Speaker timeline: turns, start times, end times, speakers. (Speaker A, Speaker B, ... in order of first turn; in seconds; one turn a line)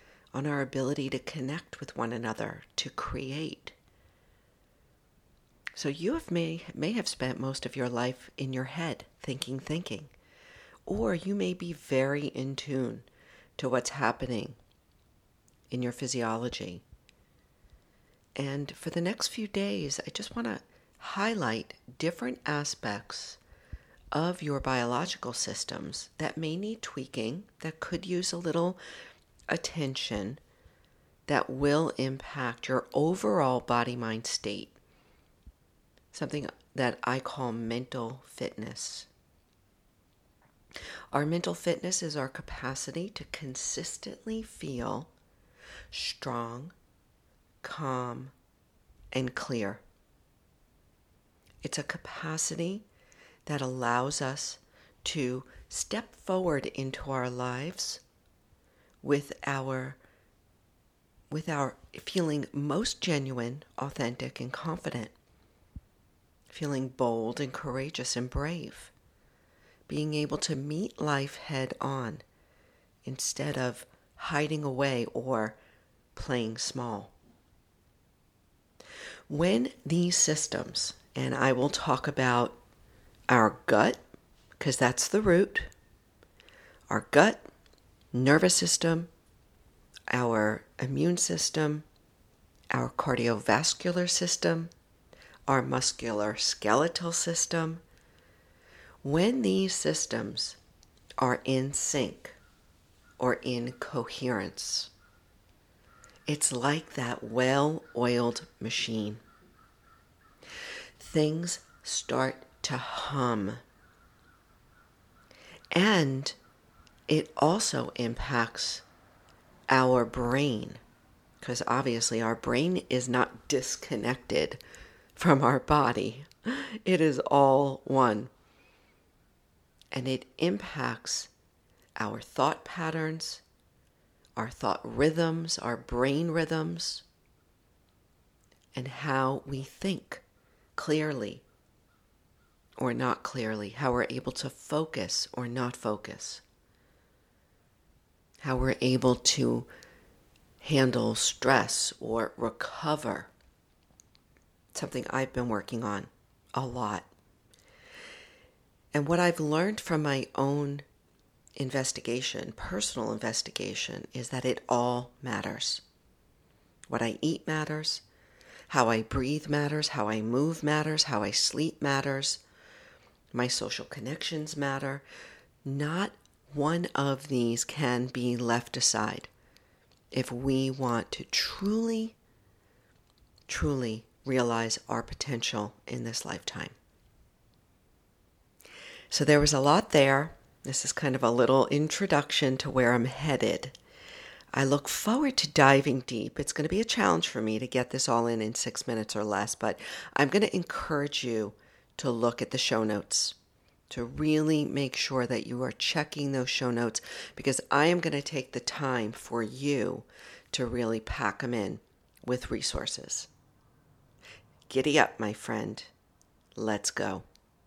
Speaker A: 0.3-3.8
Speaker A: 5.8-10.1
Speaker A: 10.9-14.6
Speaker A: 15.7-16.8
Speaker A: 18.4-23.4
Speaker A: 24.1-28.8
Speaker A: 29.5-30.4
Speaker A: 31.3-34.8
Speaker A: 36.1-39.1
Speaker A: 41.1-45.1
Speaker A: 45.9-46.8
Speaker A: 47.6-48.3
Speaker A: 49.1-49.8
Speaker A: 51.6-52.9
Speaker A: 53.5-58.0
Speaker A: 59.0-60.0
Speaker A: 61.3-65.2
Speaker A: 66.5-68.9
Speaker A: 69.9-72.2
Speaker A: 73.0-75.6
Speaker A: 76.2-77.1
Speaker A: 79.3-82.6
Speaker A: 83.3-84.0
Speaker A: 84.6-85.7
Speaker A: 86.9-87.4
Speaker A: 88.1-89.1
Speaker A: 90.1-91.8
Speaker A: 92.7-94.7
Speaker A: 95.5-97.8
Speaker A: 99.0-100.6
Speaker A: 101.2-102.4
Speaker A: 103.2-104.9
Speaker A: 106.3-109.2
Speaker A: 111.0-113.6
Speaker A: 115.7-116.4
Speaker A: 117.1-118.8
Speaker A: 119.7-120.8
Speaker A: 121.4-124.6
Speaker A: 125.2-128.3
Speaker A: 129.9-131.3
Speaker A: 132.0-133.4
Speaker A: 134.4-137.1
Speaker A: 138.8-140.2
Speaker A: 140.8-141.4
Speaker A: 142.8-146.4
Speaker A: 148.4-149.7
Speaker A: 150.6-153.3
Speaker A: 154.7-157.1
Speaker A: 158.9-160.8
Speaker A: 161.6-165.8
Speaker A: 166.9-168.0
Speaker A: 168.7-172.4
Speaker A: 173.3-175.0
Speaker A: 175.6-179.3
Speaker A: 180.1-182.2
Speaker A: 183.5-186.8
Speaker A: 189.1-193.8
Speaker A: 194.5-203.4
Speaker A: 203.9-213.3
Speaker A: 214.7-215.9
Speaker A: 216.6-217.3